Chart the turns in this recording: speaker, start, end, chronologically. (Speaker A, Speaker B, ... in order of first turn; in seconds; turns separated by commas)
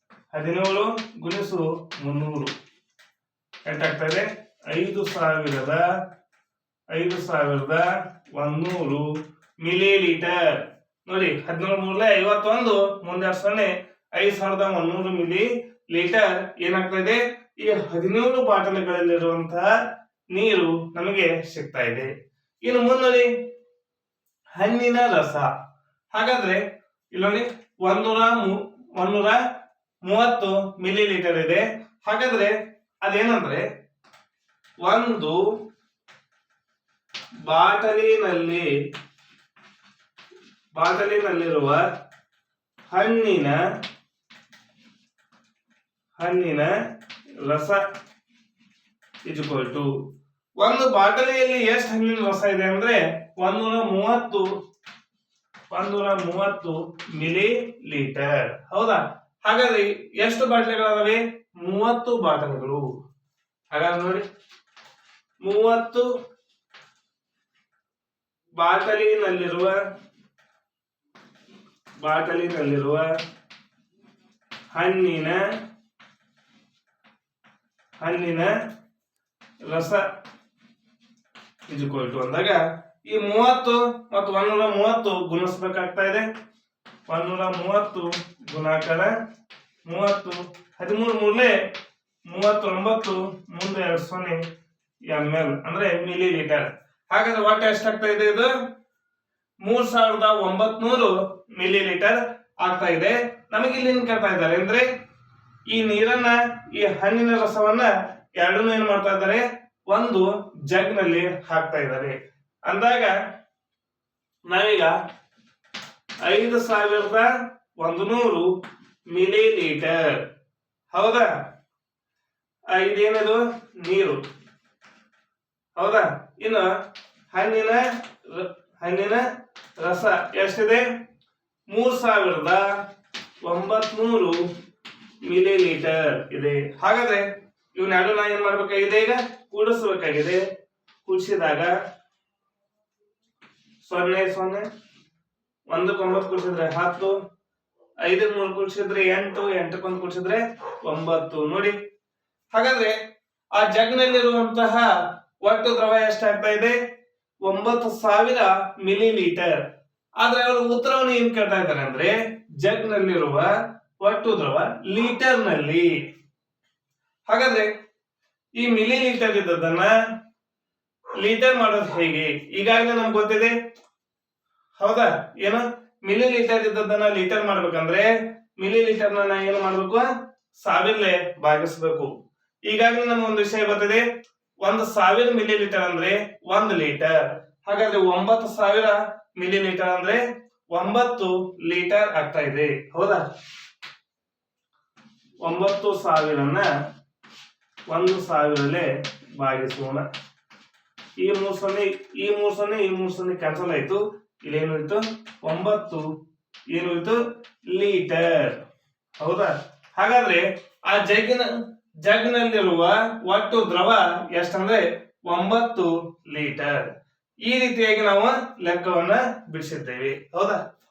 Speaker A: 0.3-2.5, Speaker A: 3.6-5.8, Speaker A: 6.9-9.1, Speaker A: 9.6-19.7, Speaker A: 20.3-22.1, Speaker A: 22.6-23.3, Speaker A: 24.6-25.5, Speaker A: 26.1-26.6, Speaker A: 27.1-29.4, Speaker A: 30.0-33.6, Speaker A: 34.8-35.4, Speaker A: 37.5-38.7, Speaker A: 40.7-41.8, Speaker A: 42.9-43.6, Speaker A: 46.2-46.7, Speaker A: 47.4-47.8, Speaker A: 49.3-49.9, Speaker A: 50.6-54.5, Speaker A: 55.7-62.9, Speaker A: 63.7-64.2, Speaker A: 65.4-66.1, Speaker A: 68.6-69.8, Speaker A: 72.0-73.1, Speaker A: 74.7-75.4, Speaker A: 78.0-78.5, Speaker A: 79.7-80.0, Speaker A: 81.7-86.2, Speaker A: 87.1-89.1, Speaker A: 89.8-91.5, Speaker A: 92.3-94.4, Speaker A: 95.1-98.5, Speaker A: 99.6-104.9, Speaker A: 105.7-112.1, Speaker A: 112.7-113.1, Speaker A: 114.5-115.0, Speaker A: 116.2-117.3, Speaker A: 117.8-118.5, Speaker A: 119.1-120.2, Speaker A: 120.9-121.3, Speaker A: 122.7-124.2, Speaker A: 125.8-126.7, Speaker A: 127.3-129.2, Speaker A: 129.8-130.9, Speaker A: 131.7-132.6, Speaker A: 133.4-134.4, Speaker A: 135.2-140.4, Speaker A: 141.0-141.7, Speaker A: 143.8-144.6, Speaker A: 145.7-147.1, Speaker A: 148.0-151.7, Speaker A: 152.5-152.9, Speaker A: 153.5-154.9, Speaker A: 155.4-156.8, Speaker A: 157.4-159.6, Speaker A: 160.2-165.9, Speaker A: 167.3-167.7, Speaker A: 168.6-169.9, Speaker A: 171.2-173.5, Speaker A: 174.8-180.1, Speaker A: 180.6-182.1, Speaker A: 182.7-184.0, Speaker A: 184.6-193.2, Speaker A: 195.4-196.7, Speaker A: 197.9-200.1, Speaker A: 201.2-206.1, Speaker A: 206.7-208.6, Speaker A: 209.2-211.5, Speaker A: 212.0-216.9, Speaker A: 217.4-220.6